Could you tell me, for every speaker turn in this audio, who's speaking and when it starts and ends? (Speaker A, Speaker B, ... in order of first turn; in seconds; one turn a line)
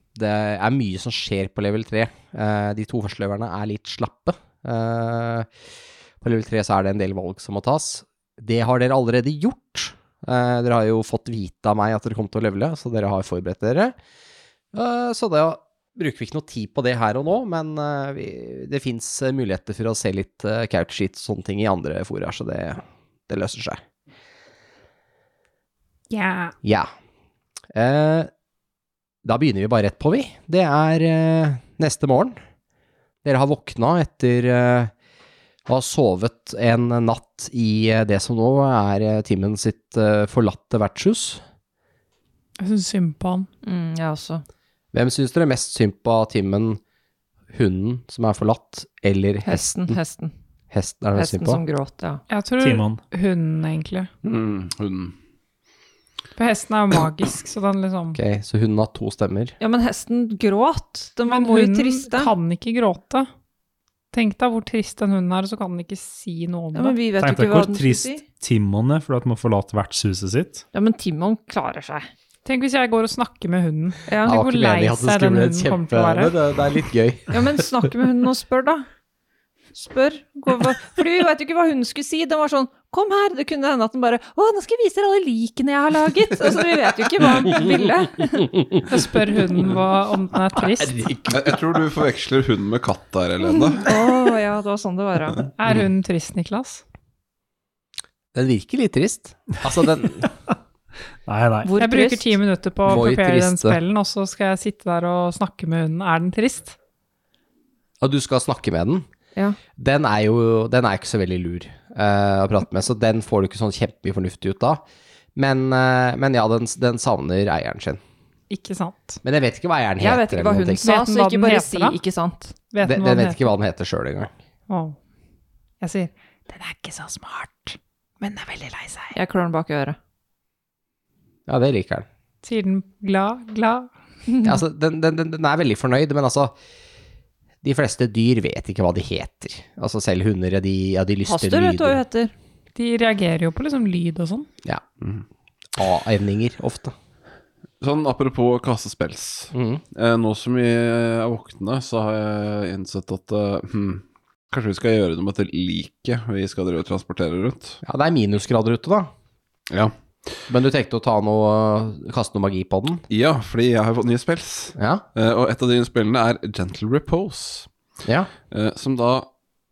Speaker A: 0.1-5.5
Speaker A: 6.2-13.9
Speaker A: 14.7-23.8
Speaker B: 26.1-26.5
Speaker A: 26.6-26.9
Speaker A: 27.7-28.3
Speaker A: 29.2-32.4
Speaker A: 33.2-34.9
Speaker A: 35.7-41.4
Speaker B: 42.6-43.5
Speaker C: 43.6-44.4
Speaker A: 44.9-46.8
Speaker A: 47.5-50.0
Speaker C: 49.4-50.3
Speaker A: 50.7-51.6
Speaker C: 51.1-52.2
Speaker B: 52.3-54.1
Speaker D: 52.6-53.0
Speaker E: 54.2-55.1
Speaker B: 56.4-58.2
Speaker A: 58.1-59.5
Speaker C: 59.6-62.3
Speaker B: 61.3-63.3
Speaker B: 64.1-67.0
Speaker C: 66.7-68.2
Speaker D: 67.2-70.6
Speaker C: 70.7-72.1
Speaker B: 72.4-76.3
Speaker C: 74.1-74.3
Speaker A: 74.2-77.4
Speaker C: 77.3-78.8
Speaker C: 79.7-88.6
Speaker B: 88.9-91.1
Speaker A: 90.8-91.4
Speaker E: 91.3-94.1
Speaker C: 93.5-95.5
Speaker B: 95.6-96.8
Speaker A: 98.3-100.3
Speaker D: 101.2-101.7
Speaker C: 101.6-102.3
Speaker B: 101.8-106.7
Speaker A: 102.8-103.8
Speaker A: 108.0-109.0
Speaker A: 109.8-114.8
Speaker A: 115.3-118.0
Speaker B: 118.5-119.2
Speaker A: 119.2-120.9
Speaker C: 120.0-122.5
Speaker B: 120.8-122.0
Speaker B: 122.7-123.4
Speaker A: 122.8-124.3
Speaker B: 124.7-125.0
Speaker B: 125.8-129.1
Speaker C: 129.1-130.0
Speaker A: 131.5-132.1
Speaker B: 132.4-133.9
Speaker A: 134.4-136.5
Speaker A: 137.6-142.0
Speaker C: 141.3-142.3
Speaker B: 142.7-144.5
Speaker A: 145.8-146.9
Speaker E: 147.8-157.8
Speaker A: 149.5-149.8
Speaker A: 157.8-159.1
Speaker E: 159.7-159.9
Speaker A: 160.5-163.0
Speaker E: 163.1-167.7
Speaker A: 164.8-165.0
Speaker A: 168.0-168.3
Speaker E: 168.5-169.3